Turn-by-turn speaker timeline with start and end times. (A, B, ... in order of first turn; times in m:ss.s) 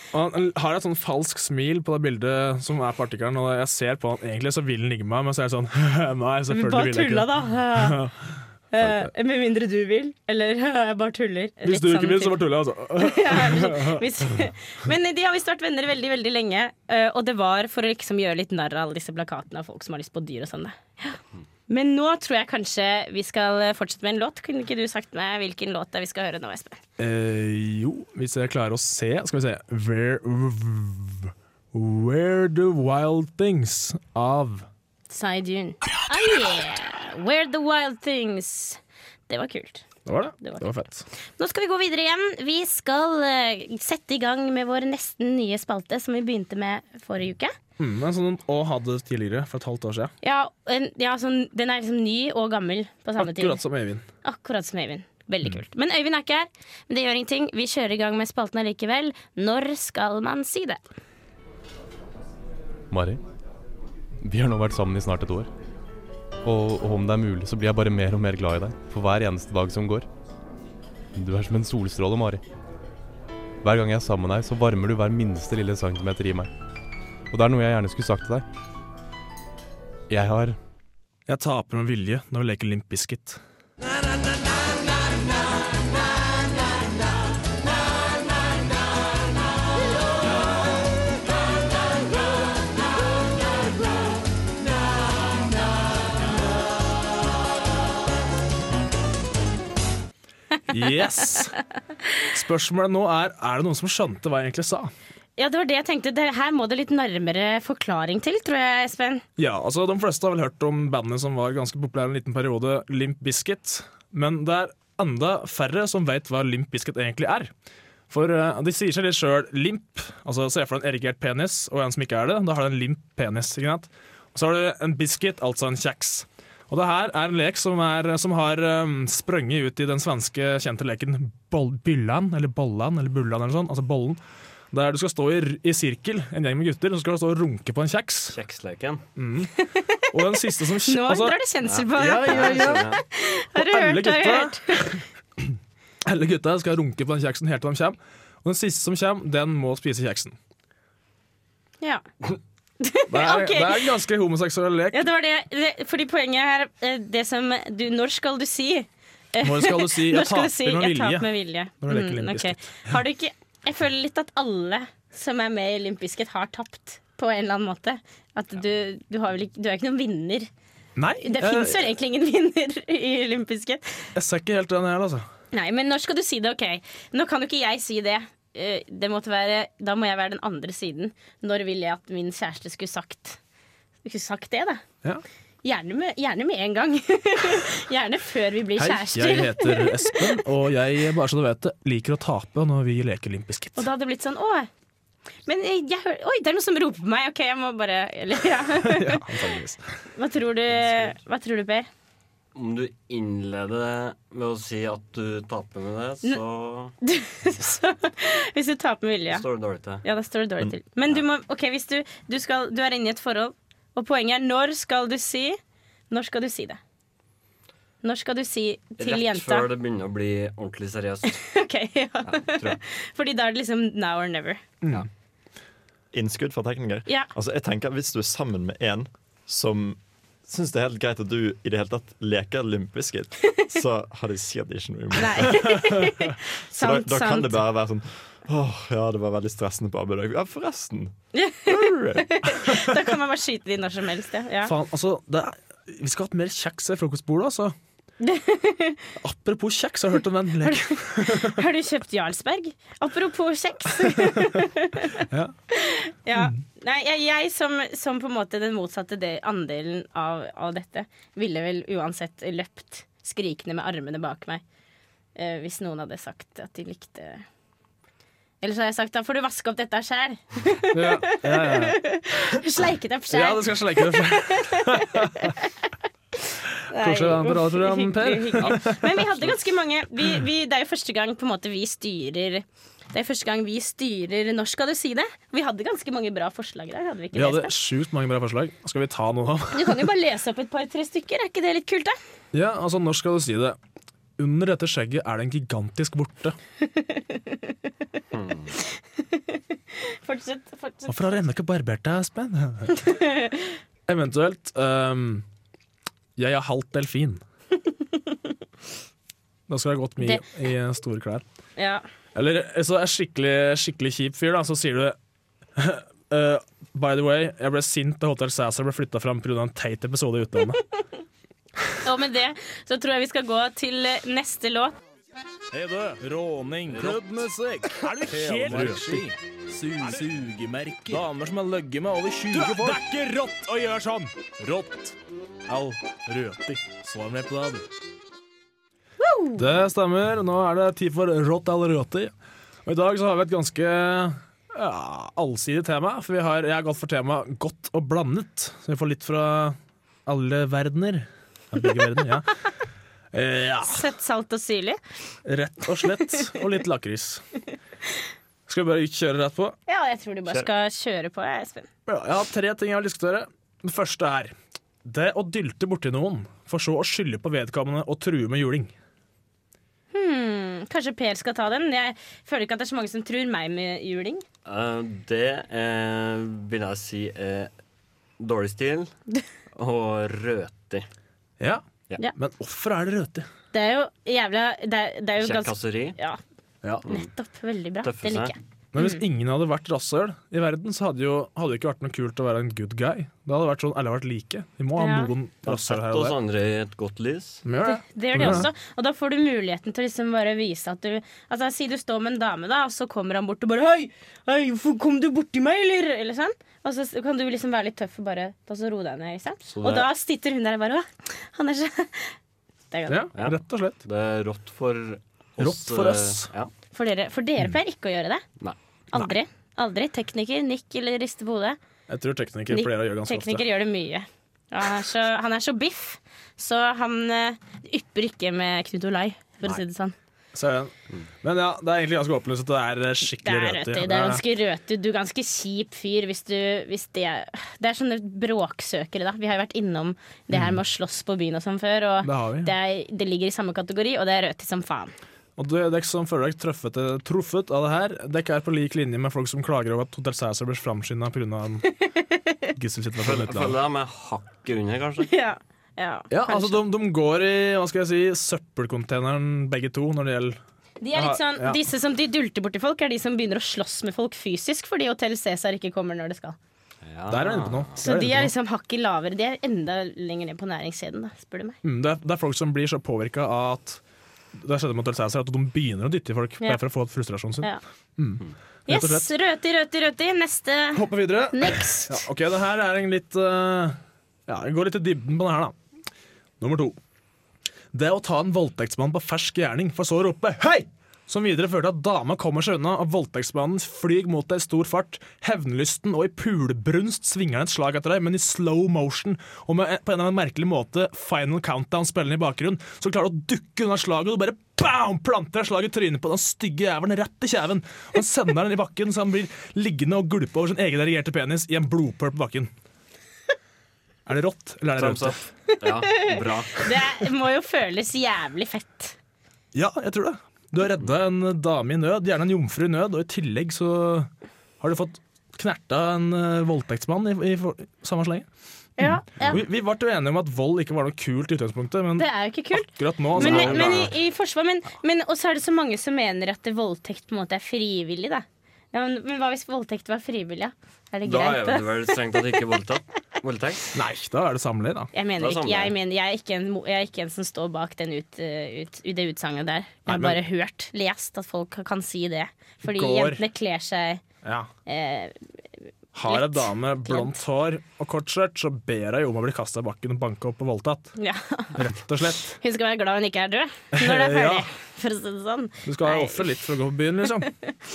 0:00.1-0:09.1 A
0:06.5-0:08.0 B
0:08.7-0:12.4 B
0:11.6-0:14.0 A
0:13.0-0:26.8 B
0:27.0-0:34.7 A
0:35.1-0:39.8 B
0:40.0-0:41.0 A
0:40.4-0:47.5 B
0:47.8-0:50.1 A
0:50.2-0:53.6 B
0:53.2-0:54.0 A
0:54.2-1:00.8 B
1:02.9-1:03.2 C
1:04.2-1:05.5 C
1:06.4-1:10.1 C
1:11.2-1:12.4 C
1:13.6-1:16.5 C
1:17.3-1:18.4 C
1:20.1-1:20.6 C
1:21.3-1:23.4 A
1:40.7-1:41.5 A
1:42.3-1:44.9 A
1:45.4-1:49.2 B
1:49.4-1:57.5 A
1:58.1-2:14.2 A
2:14.7-2:18.4 A
2:18.3-2:19.0 D
2:19.2-2:19.5 A
2:19.6-2:20.1 B
2:20.1-2:21.4 A
2:20.8-2:24.9 B
2:21.7-2:23.0 D
2:21.9-2:22.9 A
2:23.5-2:30.4 A
2:31.8-2:32.0 B
2:32.8-2:33.9 B
2:33.1-2:35.0 A
2:34.9-2:50.5 B
2:39.4-2:41.3 A
2:41.8-2:43.0 A
2:51.0-2:51.9 A
2:51.2-2:54.1 B
2:54.1-2:55.3 A
2:55.5-3:03.4 B
3:04.0-3:04.8 B
3:05.6-3:10.2 B
3:08.8-3:13.9 A
3:13.8-3:14.7 B
3:15.4-3:19.5 B
3:18.8-3:20.0 A
3:20.1-3:21.9 B
3:20.8-3:21.1 D
3:22.5-3:26.9 D
3:27.0-3:29.4 B
3:29.3-3:30.0 D
3:30.0-3:35.6 B
3:36.1-3:36.8 B
3:38.0-3:39.7 B
3:39.0-3:41.4 D
3:41.3-3:44.6 B
3:42.2-3:42.8 D
3:46.1-3:56.0 E
3:55.2-3:57.6 B
3:56.7-4:02.6 E
4:01.3-4:04.7 B
4:04.6-4:07.7 A
4:08.2-4:09.0 B
4:09.2-4:11.6 A
4:10.6-4:24.6 B
4:15.3-4:15.5 A
4:25.3-4:27.4 B
4:28.6-4:35.9 B
4:30.9-4:32.0 A
4:33.3-4:35.5 A
4:36.9-4:47.7 B
4:36.9-4:39.5 A
4:47.3-4:50.1 A
4:49.7-4:52.2 B
4:52.5-4:53.8 A
4:54.4-4:56.6 A
4:56.9-4:57.7 B
4:58.3-4:58.7 D
4:58.7-5:01.4 B
5:01.1-5:03.2 A
5:03.0-5:03.8 B
5:04.1-5:05.4 A
5:06.4-5:07.4 A
5:09.7-5:11.4 A
5:10.2-5:10.4 B
5:11.8-5:12.0 B
5:12.3-5:15.2 A
5:15.8-5:20.8 A
5:22.0-5:25.0 B
5:25.7-5:35.1 A
5:26.9-5:27.2 D
5:28.3-5:29.3 D
5:35.7-5:37.8 A
5:39.2-5:39.6 B
5:39.6-5:42.3 A
5:42.8-5:52.6 A
5:53.3-5:54.1 A
5:53.8-5:55.0 B
5:55.4-5:57.4 A
5:58.7-5:59.8 A
5:59.9-6:01.9 B
6:02.1-6:04.5 A
6:05.0-6:08.9 A
6:10.1-6:14.4 B
6:14.6-6:17.7 D
6:18.4-6:19.1 D
6:19.7-6:21.1 D
6:21.6-6:23.5 A
6:23.7-6:26.4 B
6:25.4-6:26.2 D
6:27.0-6:29.2 B
6:28.0-6:28.5 D
6:28.9-6:36.3 A
6:35.0-6:35.3 B
6:35.6-6:37.6 D
6:37.6-6:38.7 A
6:37.8-6:52.4 B
6:49.7-6:50.1 D
6:52.9-6:53.2 B
6:53.1-6:54.0 A
6:53.3-6:56.7 D
6:55.6-6:56.5 A
6:56.9-6:58.4 B
6:59.1-7:01.8 B
7:02.1-7:03.6 A
7:02.7-7:10.1 B
7:10.5-7:14.4 A
7:13.4-7:25.1 B
7:22.2-7:22.7 A
7:25.6-7:31.9 A
7:32.8-7:33.8 A
7:33.2-7:35.3 D
7:35.2-7:36.8 B
7:36.3-7:40.6 A
7:41.0-7:46.6 B
7:41.1-7:41.8 A
7:47.0-7:47.9 D
7:47.3-7:48.5 A
7:48.0-7:51.8 B
7:51.8-7:54.0 A
7:54.5-7:59.3 A
7:58.9-8:02.2 B
8:00.9-8:05.8 A
8:06.6-8:07.0 A
8:07.9-8:32.7 A
8:34.2-8:35.4 A
8:35.0-8:36.9 D
8:35.7-8:39.2 B
8:39.7-8:48.4 A
8:49.0-8:49.6 B
8:49.0-8:54.1 A
8:52.2-9:02.1 B
8:53.3-8:54.1 D
9:01.2-9:04.0 D
9:03.9-9:05.1 A
9:05.1-9:14.2 B
9:05.4-9:05.9 D
9:10.1-9:10.4 A
9:12.8-9:13.4 A
9:14.4-9:14.7 A
9:14.8-9:15.5 B
9:16.1-9:21.1 A
9:16.3-9:17.4 B
9:21.2-9:21.8 B
9:21.7-9:22.6 A
9:22.5-9:26.7 B
9:23.9-9:24.7 A
9:25.8-9:27.5 A
9:27.2-9:27.7 B